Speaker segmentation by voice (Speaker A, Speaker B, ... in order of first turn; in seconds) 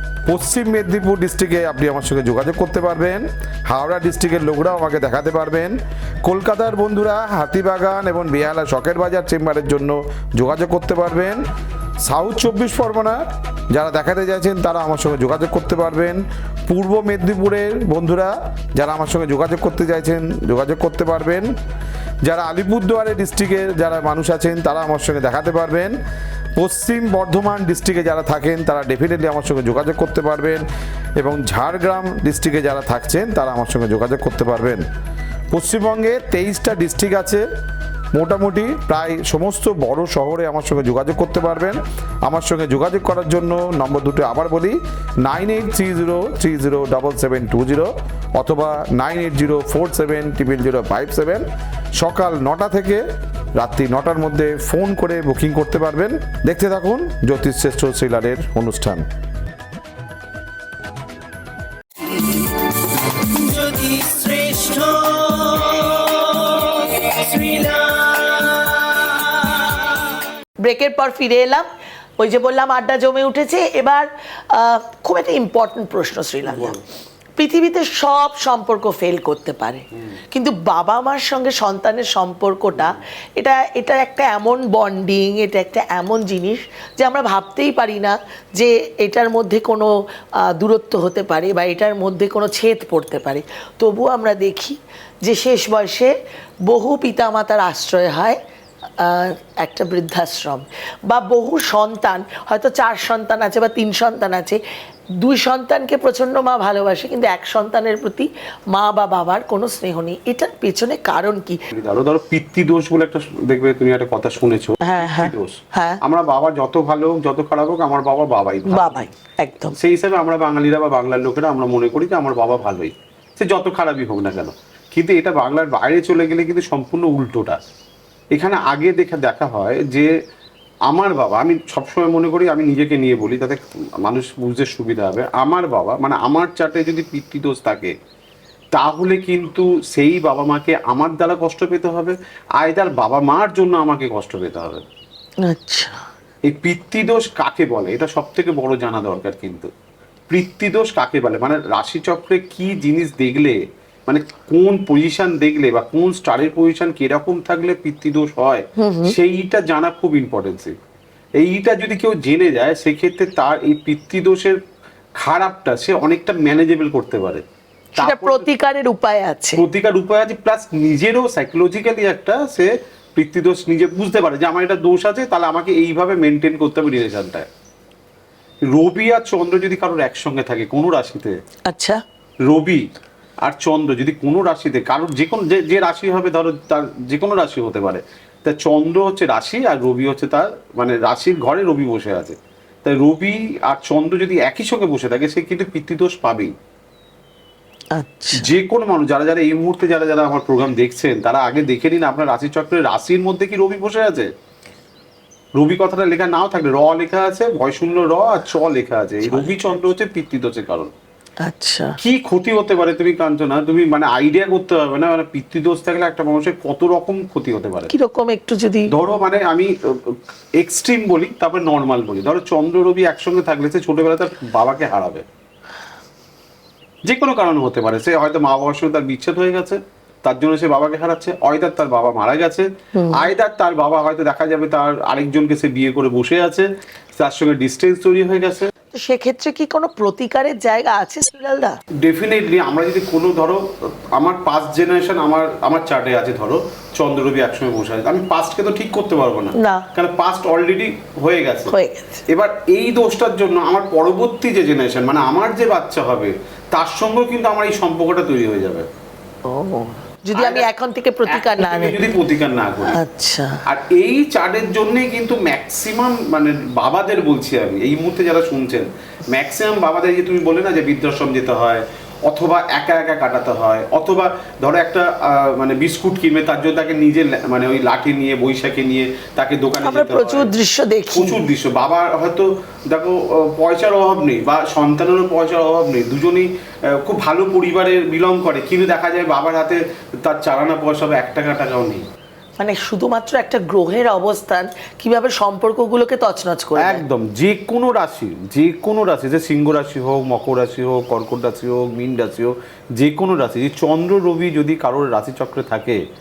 Speaker A: 0.2-11.4, 12.0-21.5, 22.2-26.0, 26.6-30.6, 31.2-34.9, 35.5-37.4, 38.1-51.5, 52.0-59.0
Speaker B: 62.0-70.1
Speaker C: 70.6-71.7, 72.2-76.8, 77.4-89.9, 90.4-96.1, 96.7-98.4, 99.0-104.6, 105.2-111.6, 114.8-116.0, 118.7-119.8, 145.4-146.0, 158.8-159.2, 168.0-169.6, 181.7-182.0, 197.9-198.5, 209.2-209.5, 211.4-212.0, 217.9-218.9, 232.9-233.3, 238.9-241.8, 249.5-249.9, 251.7-252.2, 259.4-262.0, 262.9-263.6, 279.8-281.4, 292.6-297.0
Speaker D: 76.5-76.8, 111.7-119.0, 119.8-127.6, 128.3-130.1, 130.9-137.9, 138.7-144.8, 146.4-149.7, 150.3-160.8, 161.4-164.6, 165.2-167.4, 168.0-168.4, 169.6-177.5, 178.7-181.4, 182.4-182.9, 183.4-196.5, 198.3-204.3, 205.5-210.9, 212.0-217.9, 218.9-225.2, 227.0-238.7, 242.0-251.7, 252.3-258.9, 260.3-260.7, 261.3-263.0, 263.6-280.5, 281.1-292.1, 296.8-306.0